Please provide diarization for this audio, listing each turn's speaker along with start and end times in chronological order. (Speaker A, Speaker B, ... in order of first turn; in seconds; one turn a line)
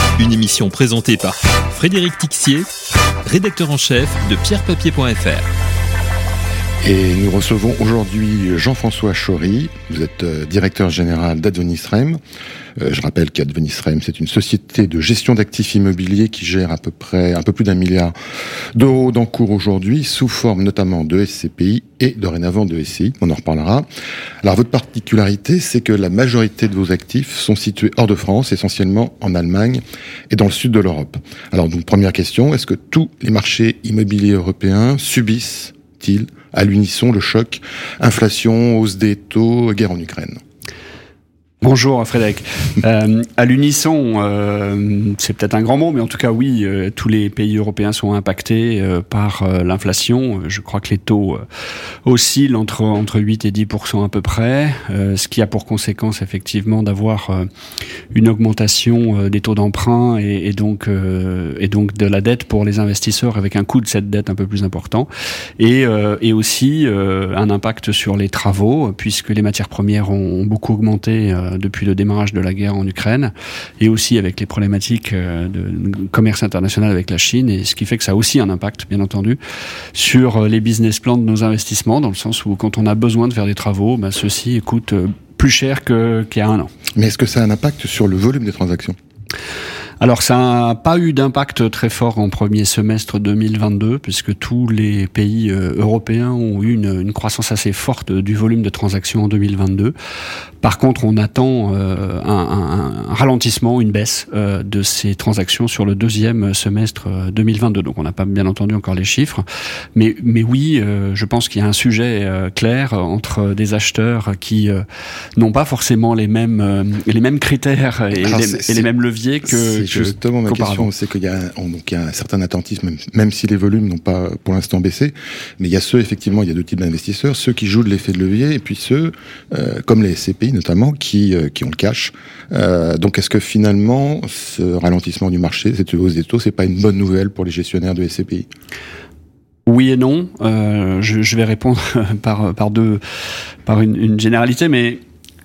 Speaker A: 0.2-2.6
Speaker A: 3.2-5.5
Speaker B: 6.8-12.2
Speaker B: 12.8-18.1
Speaker B: 18.7-23.9
Speaker B: 24.4-40.4
Speaker C: 41.6-51.4
Speaker C: 52.0-57.5
Speaker C: 58.1-79.4
Speaker C: 79.9-86.7
Speaker B: 87.0-89.0
Speaker C: 90.0-99.9
Speaker C: 100.6-109.4
Speaker C: 109.9-114.8
Speaker C: 115.4-120.9
Speaker B: 118.1-118.9
Speaker B: 119.5-138.5
Speaker C: 139.7-143.0
Speaker C: 143.7-145.0